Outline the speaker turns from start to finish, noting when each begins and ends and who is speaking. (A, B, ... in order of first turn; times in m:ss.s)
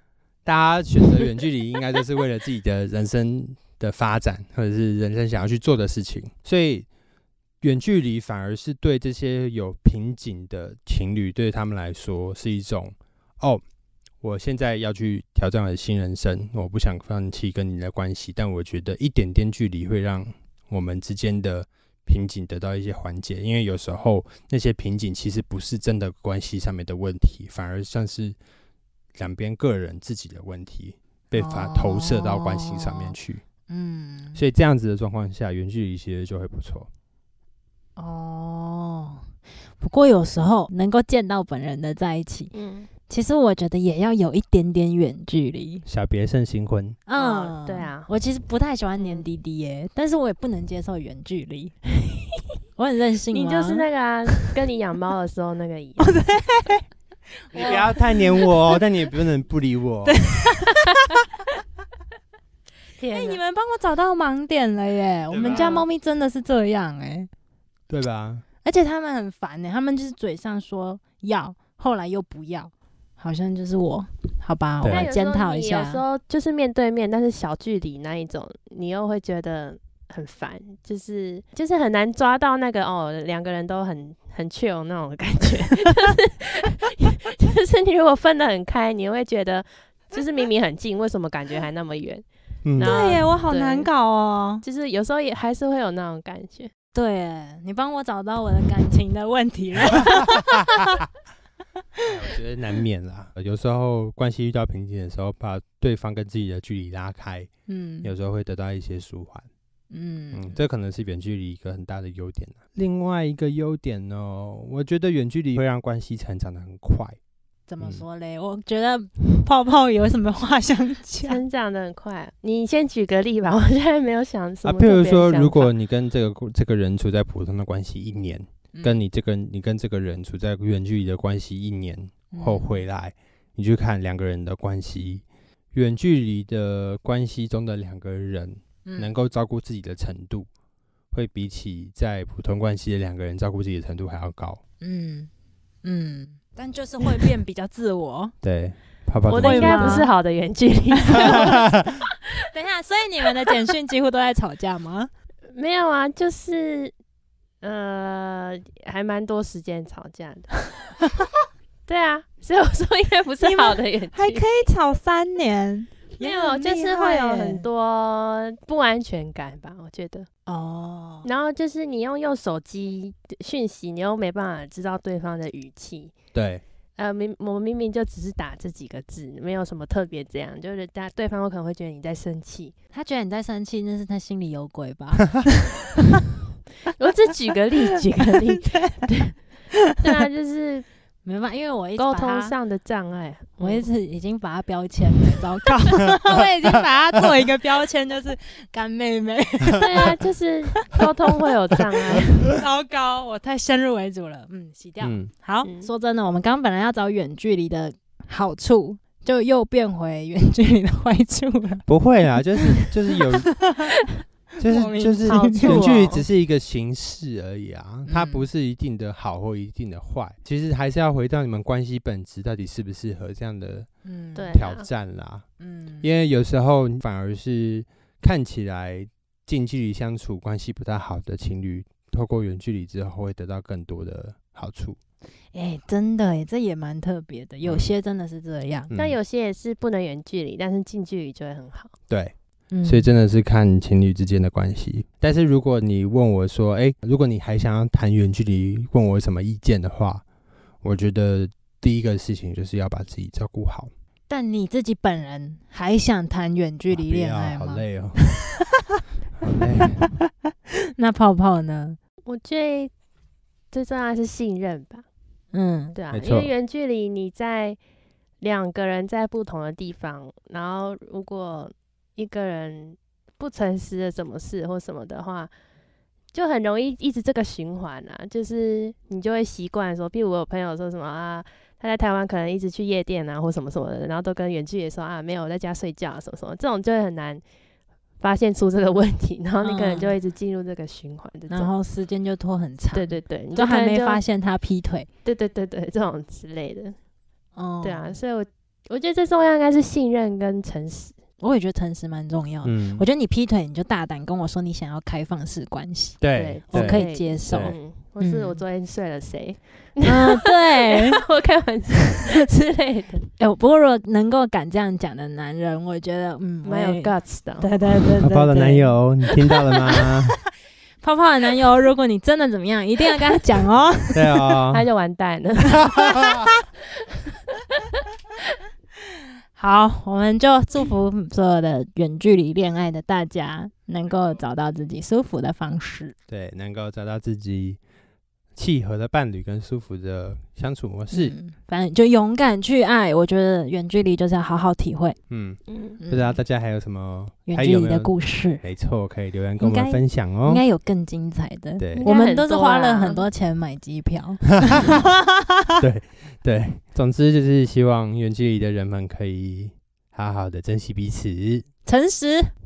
0:00.4-0:06.8 A
0:07.6-0:13.6 A
0:14.2-0:28.4 A
0:29.2-0:33.4 A
0:31.3-0:33.2 B
0:33.7-0:34.4 B
0:34.3-0:36.9 A
0:38.0-0:39.3 B
0:39.8-0:42.5 B
0:42.5-0:42.9 C
0:43.1-0:45.8 B
0:45.8-0:47.0 A
0:47.1-0:51.8 B
0:47.1-0:48.1 C
0:49.0-0:49.2 C
0:52.8-0:54.4 B
0:53.3-0:56.2 C
0:56.0-0:56.8 B
0:57.5-0:58.5 B
0:57.5-1:00.2 A
0:57.6-0:57.8 C
1:00.1-1:01.2 B
1:03.0-1:03.4 C
1:03.1-1:07.3 B
1:05.3-1:05.8 A
1:05.4-1:05.8 C
1:07.9-1:08.4 A
1:08.6-1:16.0 B
1:14.9-1:32.2 C
1:32.6-1:33.0 A
1:32.8-1:33.9 C
1:32.8-1:34.6 B
1:34.6-1:36.7 C
1:36.9-1:41.0 B
1:42.0-1:47.5 A
1:47.7-1:48.1 B
1:48.0-1:49.5 A
1:49.9-1:50.6 B
1:50.3-1:57.2 A
1:57.7-2:01.4 B
2:01.2-2:05.7 C
2:04.6-2:20.5 A
2:08.7-2:09.0 B
2:12.3-2:12.8 B
2:18.8-2:19.1 B
2:21.1-2:24.6 A
2:24.8-2:25.3 B
2:25.8-2:28.3 B
2:28.4-2:30.0 A
2:29.3-2:31.6 C
2:29.3-2:30.1 B
2:31.1-2:31.7 B
2:31.2-2:31.9 A
2:32.5-2:35.1 B
2:35.5-2:36.9 C
2:37.6-2:40.9 C
2:41.9-2:44.5 C
2:43.4-2:47.6 B
2:46.2-2:50.3 C
2:50.4-2:51.3 B
2:51.2-2:56.1 C
2:56.3-2:56.6 A
2:57.0-3:02.7 C
3:02.9-3:06.2 B
3:07.0-3:09.4 C
3:08.7-3:09.0 B
3:10.0-3:10.8 C
3:11.2-3:12.5 B
3:12.0-3:13.9 C
3:13.6-3:20.1 B
3:19.7-3:22.5 C
3:22.4-3:31.9 B
3:25.0-3:25.3 A
3:25.6-3:25.9 C
3:31.9-3:33.6 A
3:32.6-3:32.9 B
3:33.5-3:33.9 B
3:34.6-3:35.9 B
3:34.6-3:43.9 A
3:35.2-3:36.2 C
3:38.0-3:38.5 B
3:44.0-3:44.6 B
3:44.3-3:44.9 C
3:44.5-3:45.4 A
3:45.6-3:46.1 B
3:46.0-3:55.0 A
3:55.5-3:58.9 B
3:57.6-3:57.9 A
3:58.9-3:59.2 A
3:58.9-4:01.9 C
4:02.1-4:10.2 A
4:02.7-4:03.1 B
4:10.8-4:13.9 A
4:14.3-4:17.8 B
4:16.9-4:18.5 A
4:19.4-4:20.1 A
4:20.0-4:22.0 B
4:22.2-4:22.9 C
4:23.7-4:25.0 C
4:25.5-4:26.0 B
4:25.9-4:27.8 C
4:26.1-4:26.5 A
4:28.4-4:35.5 C
4:36.3-4:47.4 C
4:48.2-4:51.7 C
4:49.6-4:50.2 B
4:51.5-4:55.1 B
4:52.9-4:54.2 C
4:55.2-4:57.0 C
4:57.6-4:58.2 B
4:57.8-5:01.2 C
5:01.4-5:08.6 B
5:02.6-5:03.0 A
5:06.2-5:07.8 A
5:06.3-5:13.3 C
5:10.0-5:11.2 B
5:13.4-5:18.9 B
5:16.6-5:17.7 C
5:18.2-5:20.4 A
5:21.0-5:24.5 B
5:24.1-5:24.8 A
5:24.7-5:26.3 C
5:25.8-5:26.5 A
5:29.5-5:36.1 B
5:36.3-5:37.8 A
5:38.6-5:41.3 A
5:41.1-5:45.2 B
5:45.3-5:50.6 A
5:45.7-5:46.0 C
5:46.0-5:46.4 B
5:47.5-5:48.6 B
5:49.6-5:55.4 B
5:51.8-5:52.1 A
5:52.0-5:53.2 C
5:54.6-5:55.0 A
5:55.8-6:01.7 A
6:01.8-6:02.5 B